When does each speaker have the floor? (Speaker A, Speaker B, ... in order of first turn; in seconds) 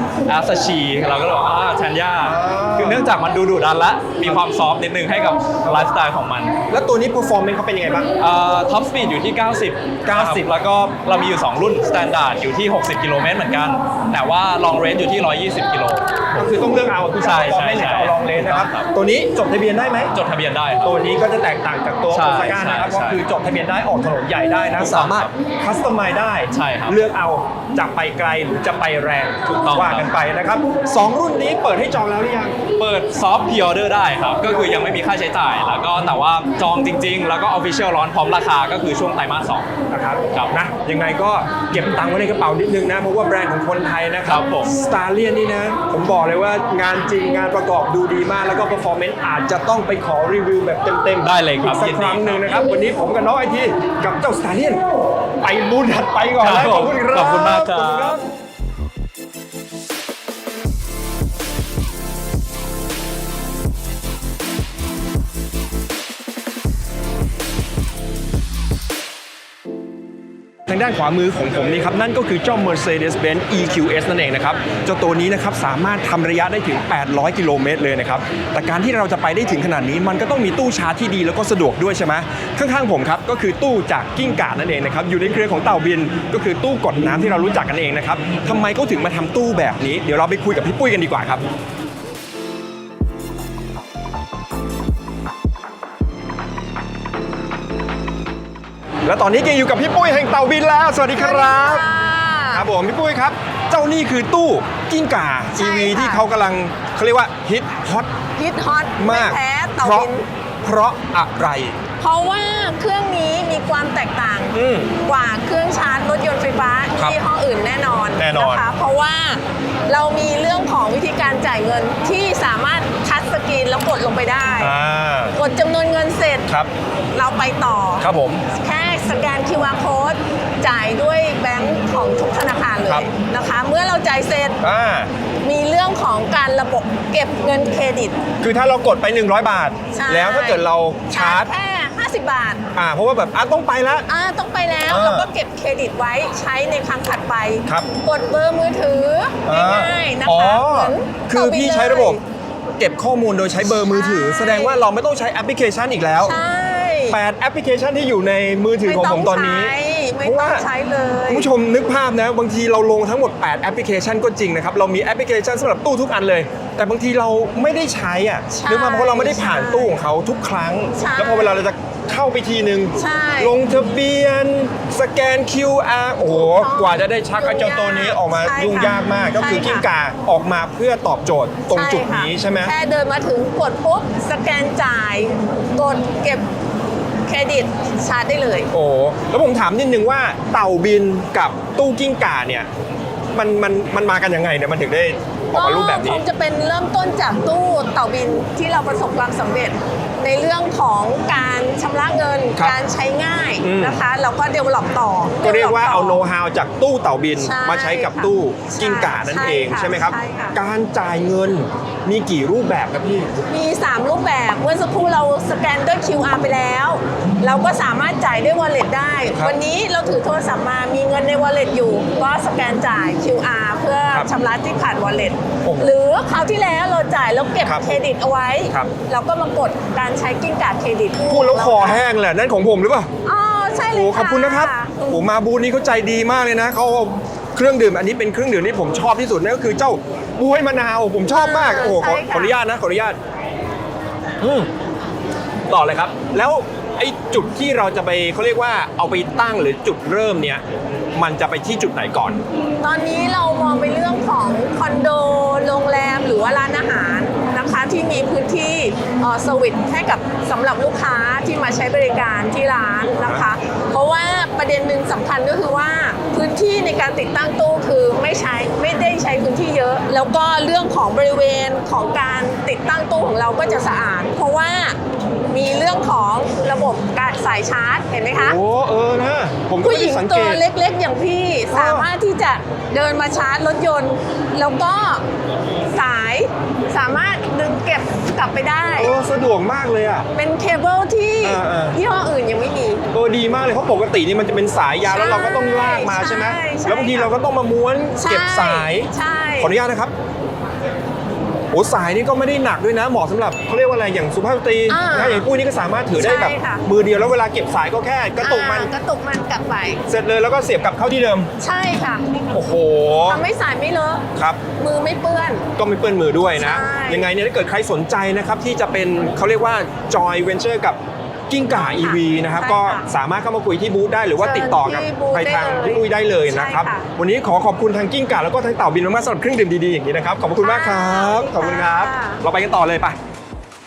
Speaker A: 0.3-6.5, 8.2-16.5, 17.2-18.9, 20.1-20.9, 22.1-23.2, 24.8-25.3, 26.5-27.0, 29.4-30.1, 32.8-39.7, 44.2-44.7, 51.2-52.6, 56.4-58.2
Speaker B: 2.2-3.0, 5.6-5.9, 6.7-8.1, 10.0-10.5, 16.3-20.1, 20.8-32.6, 34.4-34.8, 39.9-54.8, 55.4-58.2, 70.7-91.4, 99.0-101.8, 102.5-108.1, 109.0-110.1, 110.6-111.8, 114.5-114.9, 118.2-118.7, 124.6-125.3, 128.0-128.4, 134.6-135.1, 138.4-141.5, 142.7-144.1, 144.9-145.3, 149.4-152.2, 152.8-156.3, 157.1-160.6, 161.3-182.7, 188.7-192.7, 193.3-196.2, 203.6-204.0, 205.4-213.4, 225.6-225.9, 227.6-227.9, 231.3-233.1, 233.9-243.2, 244.4-244.7, 245.7-250.6, 251.2-252.4, 263.1-263.4, 278.4-280.6, 281.7-282.1, 289.0-290.2, 291.4-291.9, 293.1-300.1, 301.7-308.9, 310.1-311.5, 312.5-313.4, 314.4-314.6, 315.8-333.1
Speaker C: 101.2-102.7, 105.5-106.2, 108.3-110.2, 112.0-124.7, 125.3-126.5, 127.1-128.1, 128.6-134.6, 135.4-138.2, 139.9-142.6, 144.1-152.2, 153.8-154.8, 156.2-157.2, 158.8-161.5, 168.5-169.9, 170.9-171.6, 173.0-173.5, 176.3-179.8, 181.7-186.4, 187.3-188.7, 195.5-206.2, 207.4-210.6, 213.5-232.0, 233.2-235.2, 241.3-242.5, 252.8-275.0, 275.5-278.6, 279.8-285.2, 285.9-289.1, 290.3-293.0, 295.0-297.3, 298.2-299.7, 304.9-305.5, 306.2-306.8, 308.4-310.0, 311.6-312.3, 313.3-314.2, 314.8-315.6, 316.5-317.3, 321.8-323.0, 324.4-327.0, 330.6-332.4